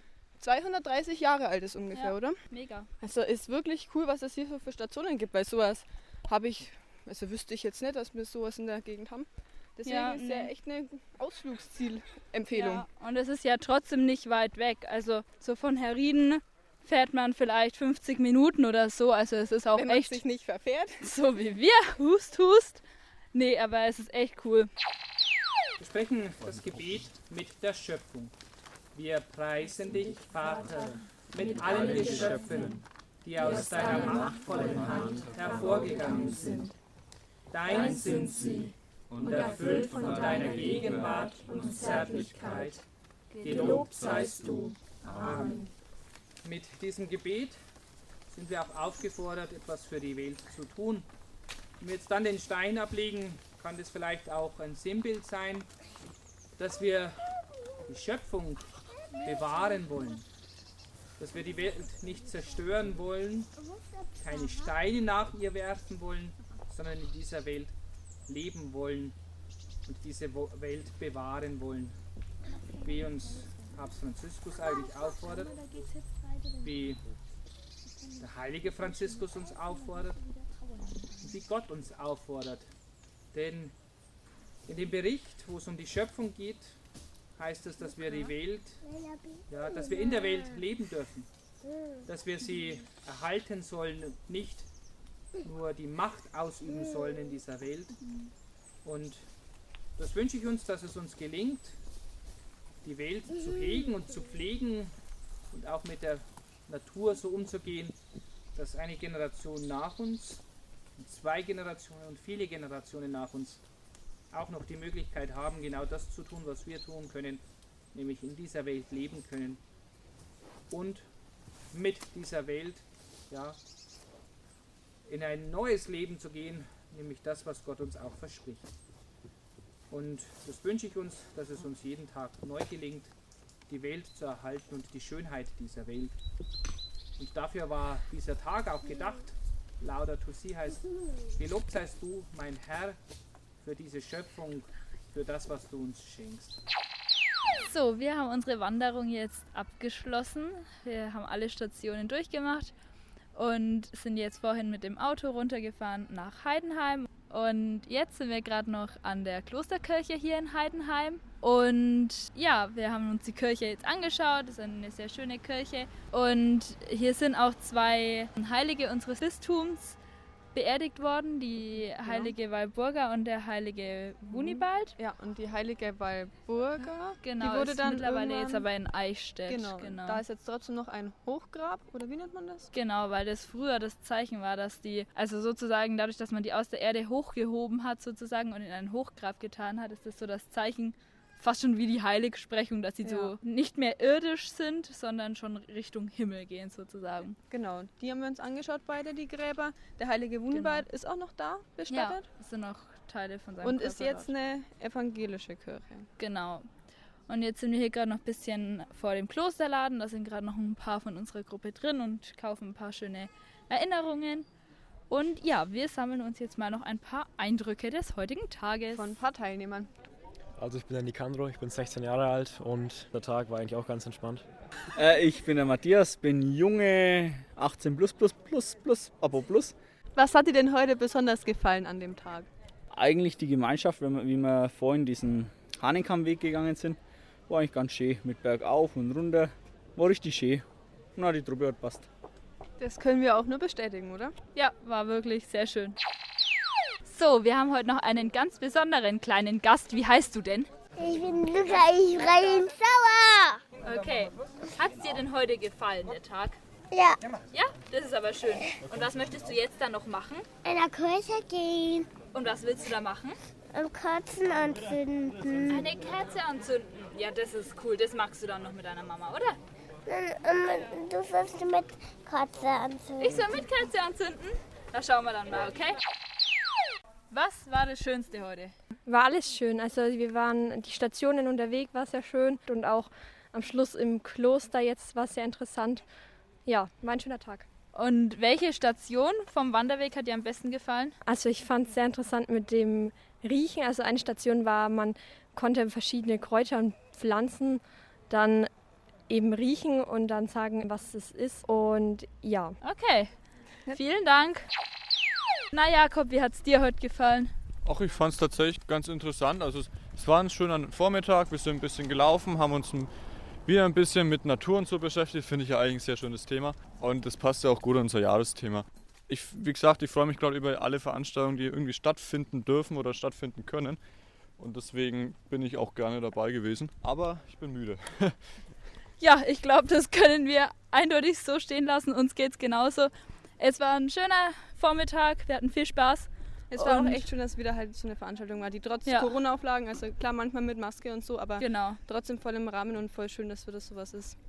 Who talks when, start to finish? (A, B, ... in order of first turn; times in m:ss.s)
0:00.4-0:02.3 A
0:01.9-0:02.9 B
0:03.0-0:12.8 A
0:09.8-0:10.5 B
0:12.5-0:20.2 B
0:19.7-0:21.0 A
0:21.0-0:22.8 B
0:23.3-0:24.7 B
0:25.8-0:28.3 C
0:28.9-0:36.7 C
0:37.5-0:42.8 C
0:43.4-0:45.7 C
0:46.4-0:47.6 C
0:48.3-0:51.0 C
0:51.8-0:55.7 C
0:56.6-0:57.3 C
0:57.8-1:00.3 C
1:01.2-1:03.5 C
1:04.2-1:07.7 C
1:08.3-1:09.1 C
1:09.8-1:12.0 C
1:12.8-1:15.7 C
1:16.6-1:17.0 C
1:18.2-1:20.2 C
1:21.2-1:22.7 C
1:23.3-1:23.7 C
1:24.6-1:26.8 C
1:27.4-1:28.8 C
1:28.9-1:29.3 D
1:29.5-1:31.3 C
1:32.0-1:34.7 C
1:35.4-1:38.0 C
1:38.8-1:39.2 C
1:40.0-1:41.8 C
1:42.8-1:44.9 C
1:45.5-1:47.9 C
1:48.5-1:50.4 C
1:51.0-1:53.6 C
1:54.3-1:57.4 C
1:57.9-1:59.6 C
2:00.7-2:01.0 C
2:01.7-2:03.6 C
2:05.0-2:08.6 C
2:09.9-2:13.1 C
2:13.7-2:16.2 C
2:17.2-2:23.0 C
2:23.6-2:26.6 C
2:27.6-2:32.7 B
2:33.3-2:50.0 B
2:50.5-2:54.9 B
2:52.0-2:52.3 A
2:54.3-2:58.6 A
2:57.2-3:00.2 B
2:59.5-3:02.7 A
3:02.7-3:17.4 B
3:13.0-3:13.4 A
3:17.5-3:22.2 A
3:20.5-3:20.8 B
3:21.9-3:24.3 B
3:23.6-3:26.1 A
3:26.2-3:26.7 B
3:27.3-3:34.5 B
3:35.1-3:39.1 B
3:38.9-3:39.9 A
3:40.6-3:44.4 E
3:45.0-3:49.7 F
3:50.1-3:52.5 A
3:52.9-4:02.1 F
4:02.8-4:04.3 A
4:04.5-4:06.0 B
4:07.0-4:10.7 B
4:11.0-4:13.6 D
4:13.8-4:16.6 B
4:16.9-4:17.2 D
4:17.5-4:20.4 B
4:20.6-4:22.1 D
4:22.3-4:23.4 B
4:23.7-4:25.9 D
4:25.7-4:29.6 B
4:30.0-4:33.5 D
4:33.2-4:36.0 B
4:37.3-4:38.7 B
4:39.0-4:46.0 G
4:46.6-4:47.7 G
4:47.9-4:51.2 B
4:51.2-4:58.7 G
4:59.3-5:02.8 G
5:02.8-5:03.3 B
5:03.9-5:04.6 B
5:05.7-5:07.5 B
5:07.8-5:13.1 H
5:13.6-5:24.0 H
5:24.6-5:28.5 H
5:29.2-5:37.3 B
5:36.7-5:44.4 A
5:39.1-5:39.3 B
5:41.6-5:42.0 B